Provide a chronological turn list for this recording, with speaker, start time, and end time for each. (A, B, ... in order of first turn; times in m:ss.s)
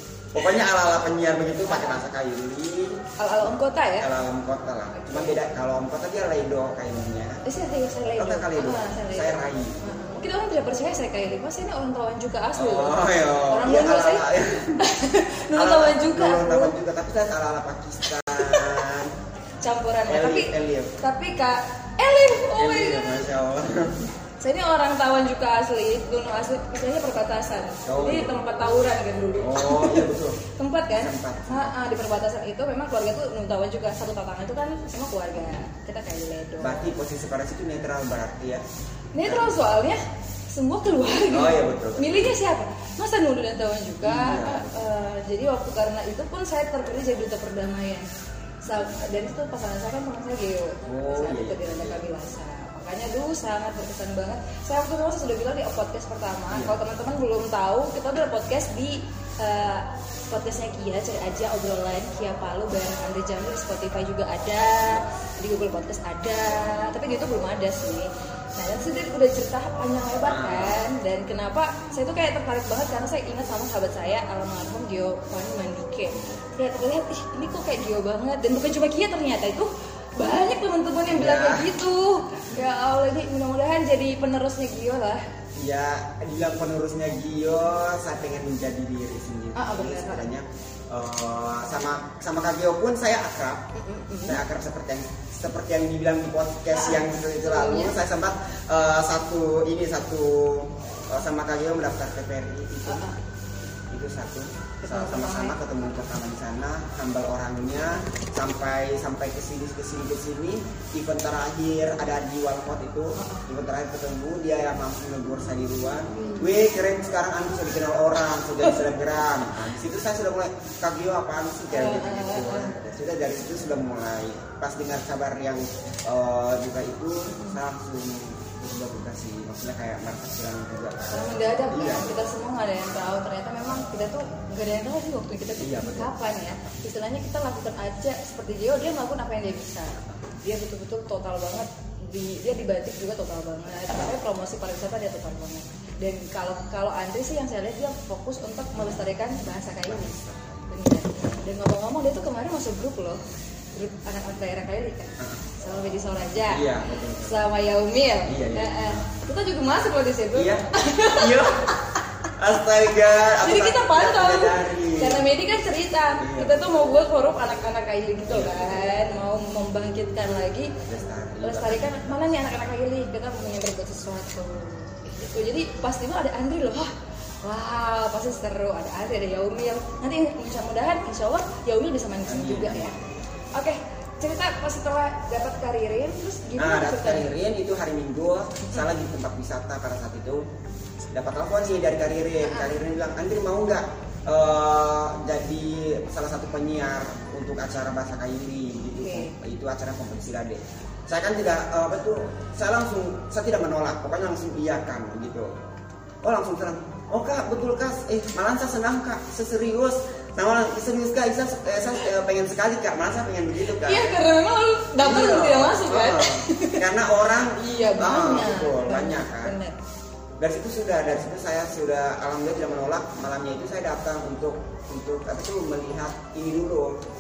0:00.3-0:03.0 A
0:01.7-0:02.0 B
0:03.2-0:04.1 B
0:04.0-0:07.4 A
0:04.9-0:05.4 B
0:07.4-0:14.2 B
0:08.2-0:09.8 A
0:12.6-0:14.8 A
0:14.8-0:16.7 B
0:15.5-0:19.1 A
0:18.4-0:18.8 B
0:19.6-0:23.3 B
0:20.1-0:20.9 A
0:22.5-0:24.1 A
0:24.4-0:36.8 B
0:27.8-0:28.3 A
0:29.4-0:30.4 A
0:30.9-0:31.7 A
0:36.6-0:38.6 A
0:39.1-0:48.1 B
0:39.2-0:39.5 A
0:41.1-0:42.3 A
0:44.0-0:44.7 A
0:48.6-1:25.2 B
0:50.8-0:52.0 A
0:56.5-0:56.8 A
1:10.2-1:10.8 A
1:21.1-1:21.7 A
1:25.6-1:33.6 A
1:29.5-1:30.3 B
1:33.7-1:34.4 B
1:34.2-1:43.1 A
1:36.7-1:38.0 B
1:42.8-1:43.2 B
1:43.9-2:12.2 A
1:44.8-1:45.6 B
1:53.2-1:53.4 B
1:56.1-1:56.5 B
2:01.7-2:02.7 B
2:11.1-2:30.1 B
2:15.6-2:16.8 A
2:29.8-2:30.7 A
2:30.7-2:33.2 B
2:33.7-2:42.0 B
2:35.2-2:35.4 A
2:36.5-2:37.4 A
2:38.2-2:39.0 A
2:40.3-2:41.7 A
2:42.4-2:45.3 A
2:43.4-2:50.7 B
2:46.2-2:46.6 A
2:48.3-2:48.9 A
2:50.8-2:52.0 A
2:51.4-2:56.9 B
2:57.4-3:03.0 B
3:02.2-3:03.0 A
3:03.5-3:07.3 B
3:06.6-3:10.4 A
3:11.1-3:25.5 A
3:12.4-3:12.8 B
3:19.0-3:19.3 B
3:26.2-3:34.2 A
3:33.8-3:36.8 B
3:35.0-3:39.6 A
3:37.6-3:39.7 B
3:40.4-3:47.0 A